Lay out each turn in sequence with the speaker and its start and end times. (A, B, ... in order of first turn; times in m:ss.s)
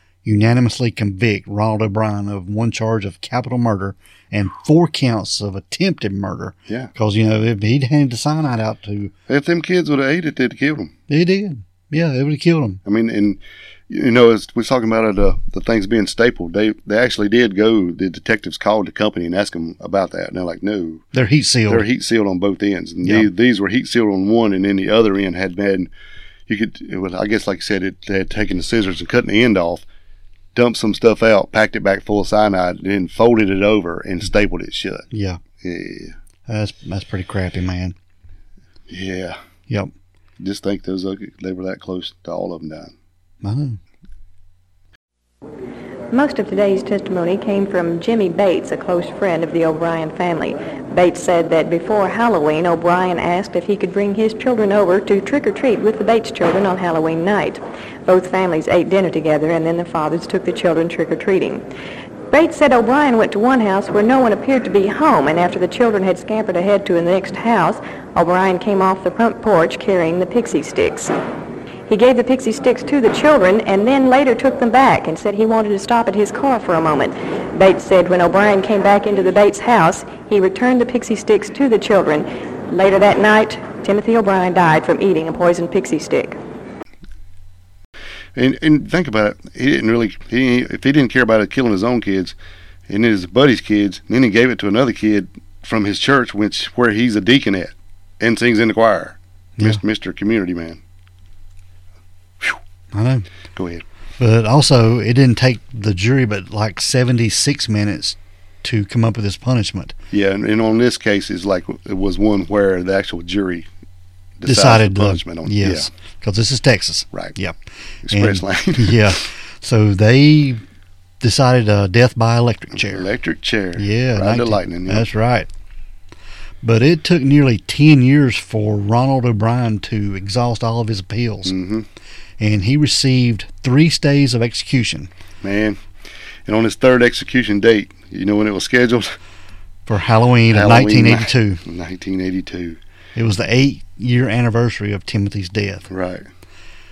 0:00.2-0:09.1 A
0:09.3-0:10.9 B
0:11.1-0:12.8 A
0:12.8-0:21.0 B
0:21.1-0:21.8 A
0:21.7-0:25.9 B
0:23.0-0:23.3 A
0:26.5-0:29.8 B
0:30.5-0:35.0 B
0:35.1-0:35.4 A
0:35.6-0:36.2 B
0:36.5-0:38.0 A
0:38.9-0:39.4 B
0:40.4-0:42.9 B
0:43.4-0:43.8 A
0:46.1-1:01.6 C
1:02.3-1:11.1 C
1:11.9-1:26.4 C
1:28.3-1:32.4 B
1:32.9-1:40.8 B
1:42.9-1:43.3 A
1:43.5-1:43.8 B
1:44.2-1:50.0 A
1:50.1-1:53.7 B
1:54.4-1:55.9 B
1:54.4-1:57.6 A
1:58.0-1:59.1 B
1:58.1-2:00.6 A
2:01.2-2:03.1 A
2:02.8-2:05.1 B
2:03.8-2:05.5 A
2:06.6-2:11.5 A
2:11.4-2:11.9 B
2:12.4-2:15.1 A
2:15.4-2:15.8 B
2:16.4-2:19.2 B
2:19.9-2:21.6 A
2:20.5-2:22.8 B
2:23.2-2:25.9 A
2:25.9-2:26.3 B